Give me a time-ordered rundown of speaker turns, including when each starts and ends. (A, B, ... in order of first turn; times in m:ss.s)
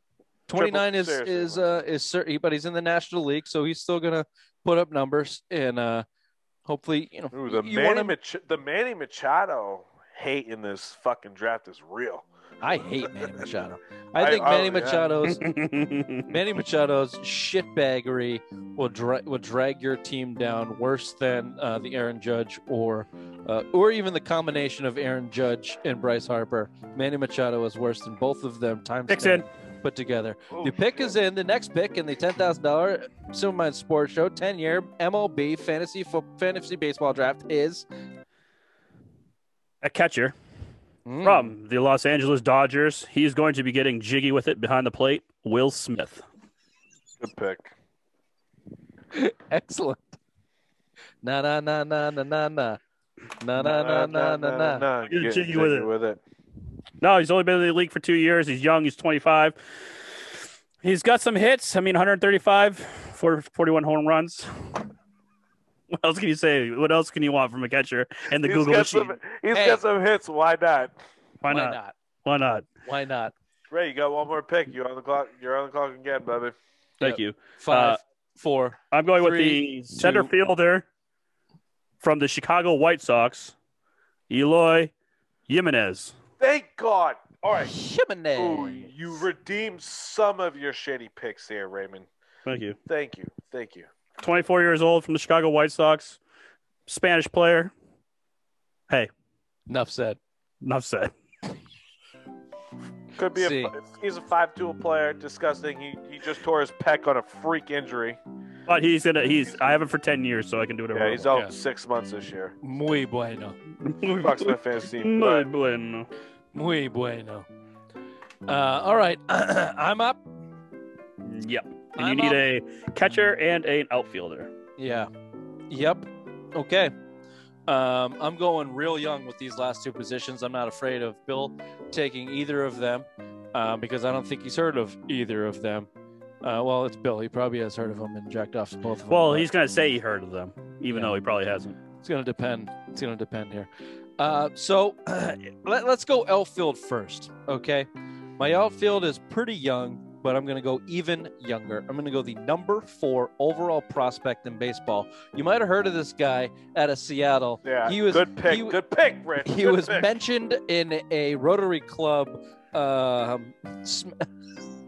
0:00.5-0:06.0 A
0:00.5-0:01.8 B
0:06.6-0:08.1 A
0:07.3-0:12.2 B
0:12.6-0:15.5 A
0:13.2-0:13.5 B
0:14.1-0:15.1 B
0:15.3-0:16.3 C
0:16.3-0:37.8 A
0:29.1-0:29.4 C
0:30.5-0:31.2 B
0:39.8-0:40.3 C
0:41.0-0:41.5 A
0:41.2-0:46.2 C
0:47.2-0:47.7 B
0:49.1-0:50.2 A
0:51.2-0:52.8 A
0:53.4-0:54.8 A
0:53.6-0:56.2 B
0:55.1-0:55.9 C
0:57.0-0:59.6 C
1:00.8-1:04.8 C
1:05.9-1:09.2 C
1:08.4-1:11.0 B
1:09.5-1:09.8 A
1:11.4-1:12.7 C
1:11.5-1:12.0 A
1:12.8-1:13.3 A
1:13.7-1:16.5 B
1:17.0-1:18.0 C
1:17.0-1:20.3 A
1:18.9-1:20.8 C
1:22.0-1:23.5 C
1:24.3-1:24.9 C
1:25.5-1:26.1 C
1:26.4-1:27.7 B
1:27.6-1:28.9 A
1:28.4-1:32.1 B
1:32.4-1:32.8 C
1:32.9-1:33.9 B
1:34.2-1:36.2 C
1:36.9-1:37.7 C
1:39.7-1:40.2 A
1:40.6-1:41.1 C
1:43.2-1:48.2 B
1:43.3-1:43.7 A
1:48.7-1:51.3 C
1:50.9-1:52.6 B
1:52.6-1:53.6 A
1:53.8-1:56.1 C
1:54.2-1:55.5 B
1:56.5-1:57.4 A
1:58.4-2:00.2 A
2:01.2-2:04.5 C
2:02.0-2:02.4 A
2:04.8-2:05.1 A
2:05.7-2:06.9 A
2:07.7-2:15.9 A
2:16.4-2:19.5 A
2:19.1-2:21.8 C
2:22.0-2:38.8 A
2:37.6-2:40.1 B
2:39.4-2:44.3 A